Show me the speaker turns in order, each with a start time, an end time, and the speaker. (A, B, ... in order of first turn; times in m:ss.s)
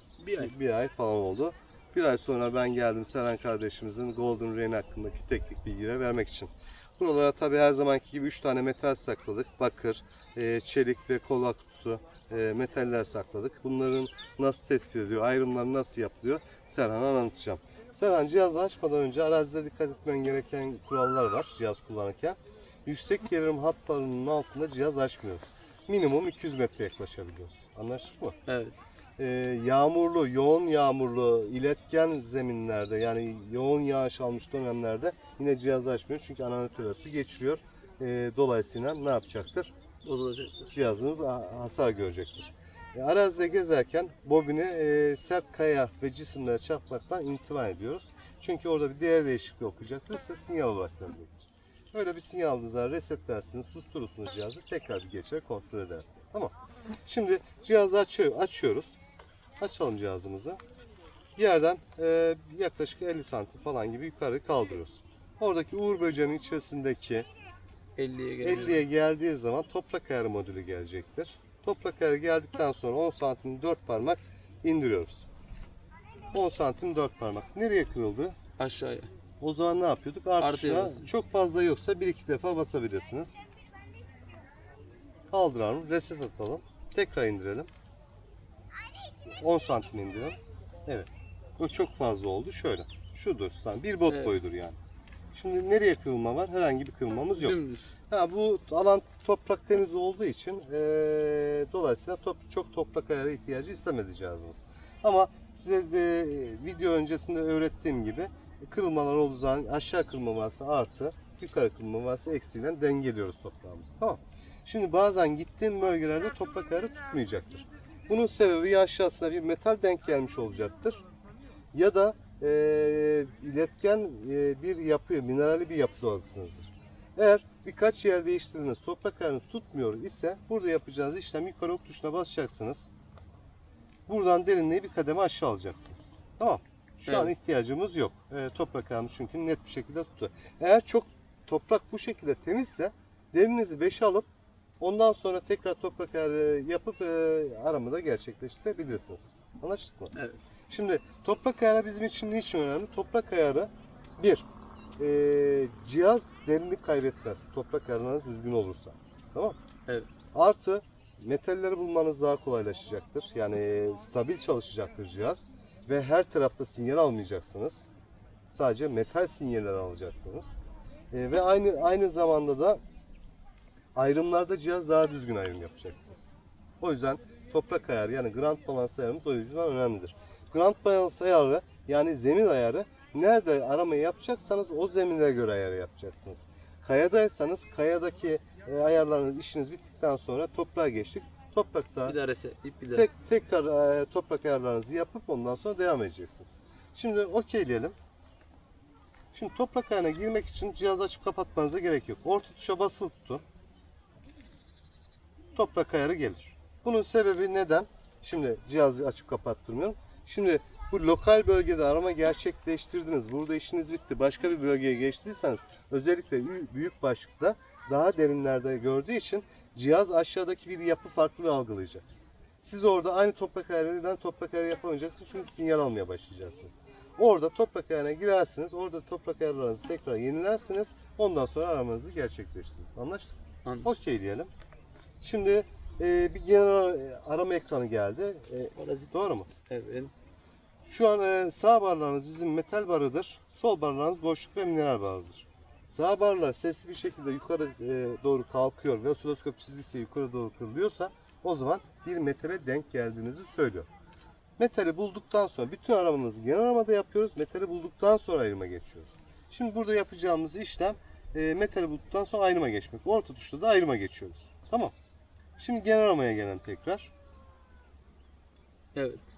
0:00.2-0:00.5 A
0:00.4-0:28.4 B
0:28.5-0:28.8 A
0:29.2-0:39.7 B
0:40.0-0:40.7 A
0:40.7-0:56.5 B
0:57.0-0:59.0 B
0:59.6-1:00.6 B
1:01.4-1:07.3 B
1:08.0-1:08.8 A
1:08.4-1:15.3 B
1:16.3-1:18.4 B
1:18.6-1:19.1 A
1:19.4-1:23.4 B
1:20.5-1:21.0 A
1:25.3-1:27.7 B
1:29.3-1:34.8 B
1:35.3-1:37.6 B
1:37.4-1:37.9 A
1:38.1-2:01.0 B
2:01.7-2:12.9 B
2:14.1-2:24.3 B
2:24.8-2:30.2 B
2:30.7-2:34.5 B
2:35.0-2:39.6 B
2:40.3-2:47.9 B
2:48.5-2:50.5 B
2:51.1-2:52.8 B
2:54.0-2:56.2 B
2:56.8-3:12.2 B
3:12.1-3:13.1 A
3:12.9-3:18.0 B
3:19.3-3:23.4 B
3:25.6-3:42.0 B
3:42.6-3:54.5 B
3:55.2-3:59.5 B
3:58.8-3:59.1 A
3:59.6-4:00.1 A
4:00.9-4:13.9 B
4:14.6-4:24.9 B
4:25.6-4:27.1 B
4:29.0-4:29.3 A